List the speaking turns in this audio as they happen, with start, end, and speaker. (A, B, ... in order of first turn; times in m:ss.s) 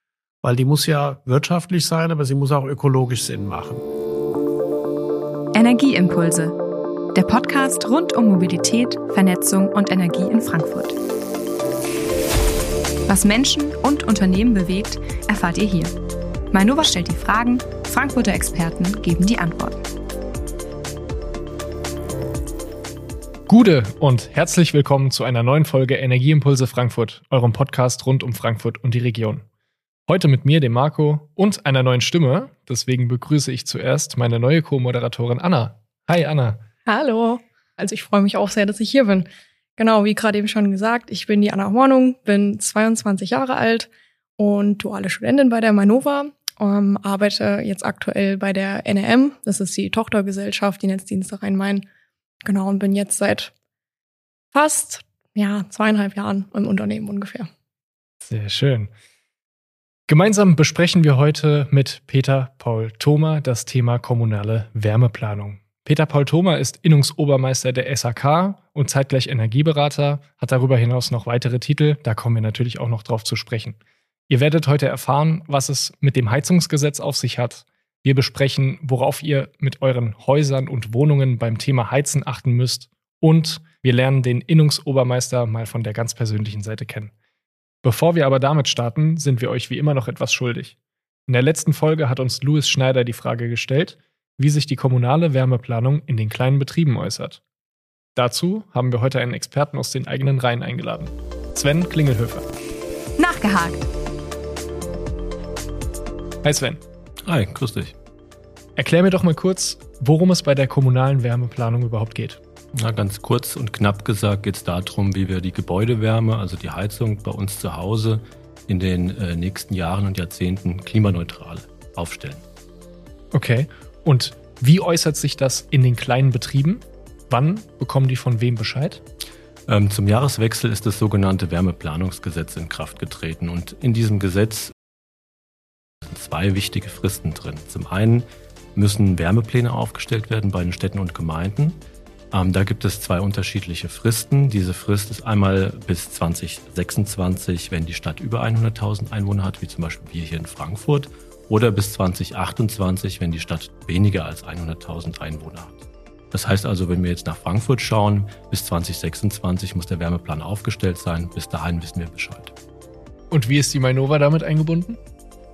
0:00.4-0:03.8 A
0:05.5-0:06.6 B
0:07.2-0:11.0 B
0:13.1-0:15.9 B
0:16.5-0:19.8 B
0:23.5-0:29.4 C
0:30.1-0:36.6 C
0:36.9-0:51.8 D
0:52.4-0:53.5 D
0:54.5-0:57.5 D
0:58.2-0:58.9 C
1:00.1-1:13.8 C
1:14.3-1:27.1 C
1:27.8-1:30.8 C
1:31.3-1:37.4 C
1:38.2-1:42.4 C
1:43.2-1:43.9 B
1:46.4-1:46.8 C
1:47.2-1:48.0 E
1:48.8-1:52.4 C
1:52.8-2:02.4 E
2:03.3-2:09.0 C
2:09.7-2:14.7 E
2:16.0-2:21.8 E
2:22.3-2:42.5 E
2:43.3-2:45.0 C